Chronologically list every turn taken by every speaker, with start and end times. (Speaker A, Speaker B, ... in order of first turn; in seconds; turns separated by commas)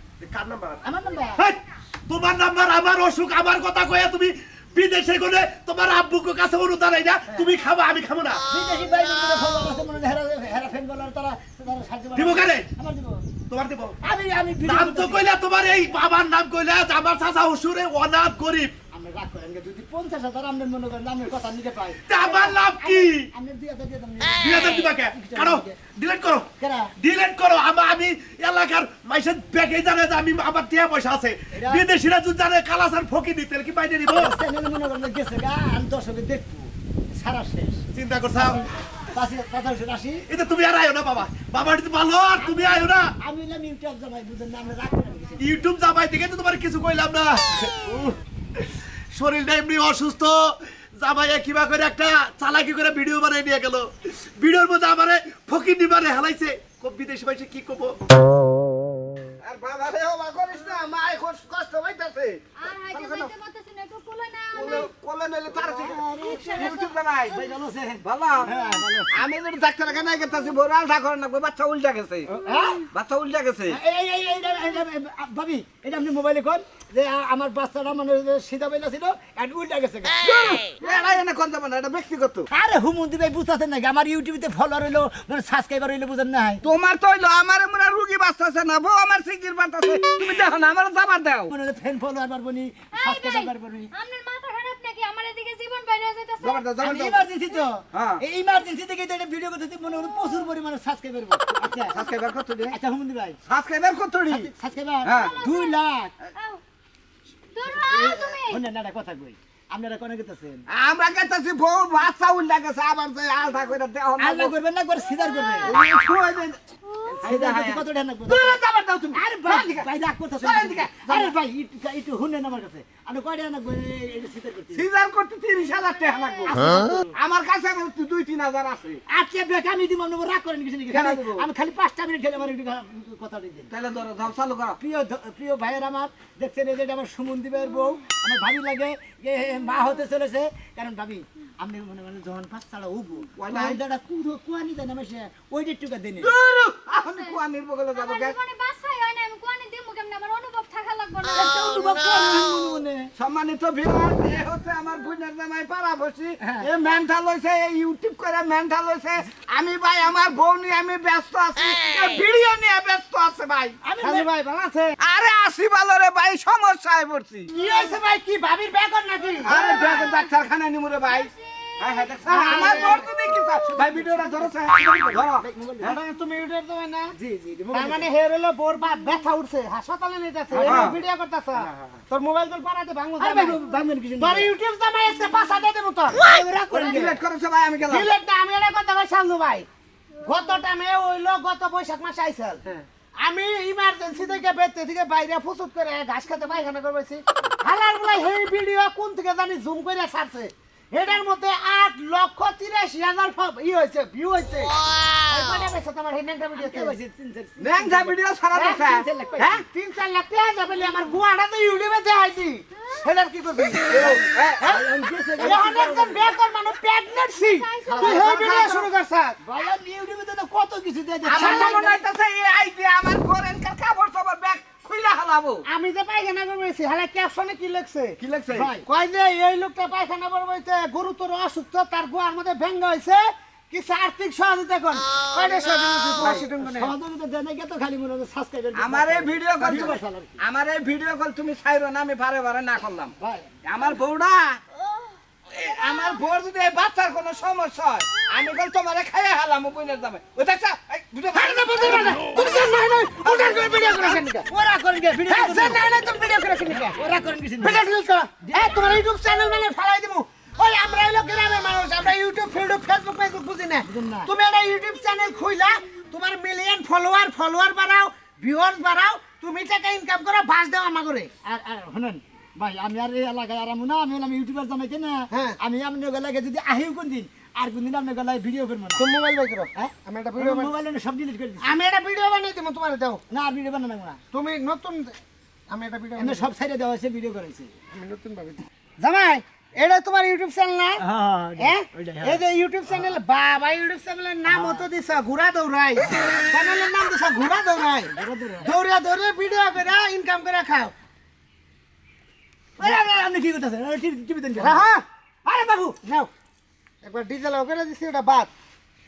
Speaker A: 0.2-0.8, Speaker B: 0.8-1.4, Speaker A: 1.4-8.4, Speaker B: 8.5-13.2, Speaker A: 12.1-12.7, Speaker A: 13.5-14.0, Speaker B: 14.0-15.3, Speaker A: 14.6-18.7, Speaker B: 18.9-25.8, Speaker A: 22.1-23.3, Speaker A: 24.4-26.5, Speaker B: 26.6-26.9, Speaker A: 27.0-34.3, Speaker B: 31.5-31.9, Speaker B: 34.1-40.2, Speaker A: 37.9-38.6, Speaker A: 40.3-43.1, Speaker B: 42.4-45.5, Speaker A: 45.4-50.4, Speaker A: 51.0-58.0, Speaker C: 59.4-63.3, Speaker D: 62.6-64.9, Speaker C: 64.5-67.3, Speaker B: 65.6-69.2, Speaker C: 68.0-68.5, Speaker C: 69.1-72.3, Speaker B: 72.3-72.8, Speaker C: 72.9-73.8, Speaker B: 73.7-80.1, Speaker C: 80.2-82.5, Speaker B: 82.5-86.6, Speaker C: 86.6-91.5, Speaker B: 91.5-93.9, Speaker D: 93.0-96.6, Speaker C: 96.4-97.2, Speaker B: 96.8-102.0, Speaker C: 97.9-98.2, Speaker C: 101.9-102.7, Speaker B: 102.7-103.4, Speaker C: 103.5-104.5, Speaker B: 104.3-106.1, Speaker C: 105.0-105.3, Speaker D: 105.4-105.7, Speaker D: 107.6-108.5, Speaker B: 107.7-110.6, Speaker C: 110.7-114.5, Speaker B: 114.2-115.8, Speaker D: 115.2-115.5, Speaker C: 115.6-116.6, Speaker B: 117.0-118.6, Speaker C: 117.2-119.9, Speaker B: 119.1-124.8, Speaker C: 120.4-121.3, Speaker C: 124.7-129.0, Speaker B: 126.6-126.9, Speaker B: 129.1-133.7, Speaker C: 130.9-131.4, Speaker C: 133.7-134.8, Speaker B: 134.8-146.3, Speaker C: 143.4-143.8, Speaker C: 146.2-148.3, Speaker D: 146.9-147.3, Speaker D: 147.9-151.5, Speaker B: 151.3-153.1, Speaker C: 153.2-164.3, Speaker B: 156.4-156.7, Speaker B: 163.8-164.6, Speaker C: 165.0-167.8, Speaker E: 167.5-169.6, Speaker C: 169.4-176.0, Speaker B: 172.3-176.0, Speaker E: 172.3-173.0, Speaker E: 175.9-177.1, Speaker B: 177.2-178.1, Speaker E: 177.7-183.5, Speaker C: 180.5-181.0, Speaker B: 183.2-184.5, Speaker E: 184.2-186.6, Speaker B: 186.2-187.2, Speaker C: 186.7-188.1, Speaker E: 187.9-189.7, Speaker E: 190.2-204.7, Speaker E: 205.3-206.9, Speaker B: 206.5-209.6, Speaker C: 207.6-209.6, Speaker E: 209.7-214.8, Speaker C: 213.8-214.7, Speaker B: 214.0-216.3, Speaker C: 215.4-215.8, Speaker E: 215.4-219.3, Speaker D: 217.7-218.0, Speaker B: 217.8-218.4, Speaker C: 218.0-219.0, Speaker B: 219.4-222.0, Speaker C: 221.2-225.6, Speaker E: 221.3-221.8, Speaker E: 225.7-228.2, Speaker C: 228.2-228.7, Speaker B: 228.5-228.9, Speaker E: 228.9-236.9, Speaker C: 236.2-236.5, Speaker B: 236.4-240.3, Speaker C: 238.7-243.1, Speaker B: 243.2-243.5, Speaker C: 243.6-244.6, Speaker C: 245.5-254.3, Speaker E: 251.3-254.4, Speaker B: 254.5-255.8, Speaker E: 255.3-257.0, Speaker B: 256.9-257.9, Speaker E: 257.6-271.3, Speaker B: 258.4-259.0, Speaker B: 263.8-264.3, Speaker B: 271.4-279.1, Speaker E: 279.1-280.6, Speaker B: 279.8-281.7, Speaker E: 281.7-283.2, Speaker B: 283.3-284.2, Speaker E: 284.3-285.1, Speaker E: 285.7-286.4, Speaker B: 286.2-287.7, Speaker E: 287.9-290.9, Speaker B: 291.0-292.4, Speaker E: 292.2-298.1, Speaker B: 294.5-294.9, Speaker B: 296.1-296.3, Speaker B: 298.1-298.7, Speaker E: 298.6-300.9, Speaker B: 302.8-304.9, Speaker E: 304.6-305.0, Speaker B: 305.5-305.9, Speaker E: 305.9-306.3, Speaker E: 307.0-308.5